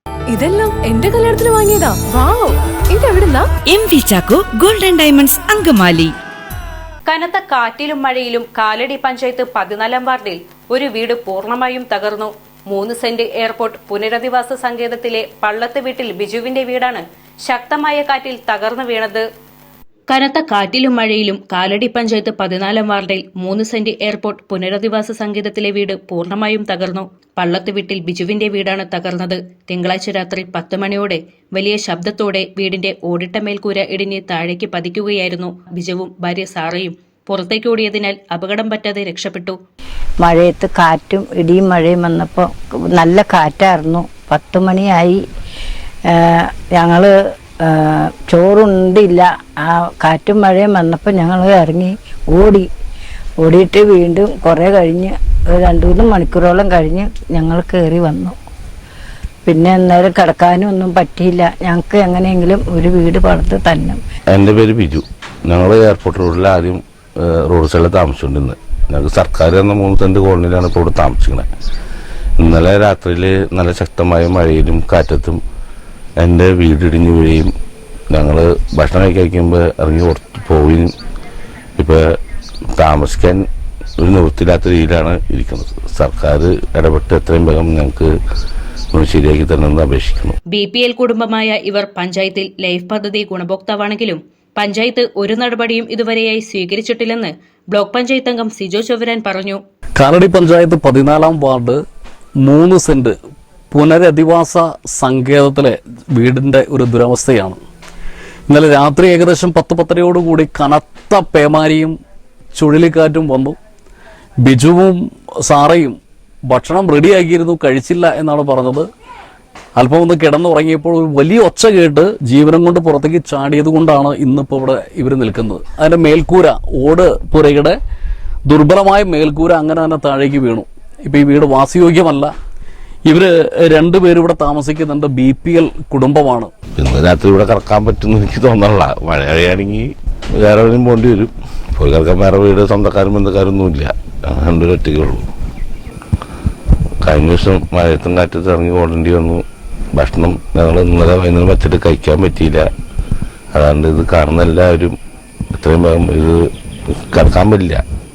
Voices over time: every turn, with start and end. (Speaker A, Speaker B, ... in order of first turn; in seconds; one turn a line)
Speaker A: 0.3-3.5
Speaker B: 3.7-6.1
Speaker C: 7.1-19.2
Speaker C: 20.1-39.6
Speaker D: 40.2-45.2
Speaker D: 46.1-47.1
Speaker D: 47.7-52.7
Speaker D: 53.4-58.4
Speaker D: 59.5-64.0
Speaker E: 64.3-71.5
Speaker E: 72.4-75.4
Speaker E: 76.2-77.5
Speaker E: 78.1-80.9
Speaker E: 81.8-82.0
Speaker E: 82.8-83.4
Speaker E: 84.0-88.1
Speaker E: 88.9-90.4
Speaker C: 90.5-99.6
Speaker F: 100.0-101.8
Speaker F: 102.4-103.2
Speaker F: 103.7-107.6
Speaker F: 108.5-112.0
Speaker F: 112.5-113.6
Speaker F: 114.4-118.9
Speaker F: 119.7-127.8
Speaker F: 128.5-132.3
Speaker F: 133.1-136.5
Speaker E: 136.8-145.3
Speaker E: 147.0-149.4
Speaker E: 149.9-152.7
Speaker E: 153.5-155.0
Speaker E: 155.6-156.4
Speaker E: 157.1-157.8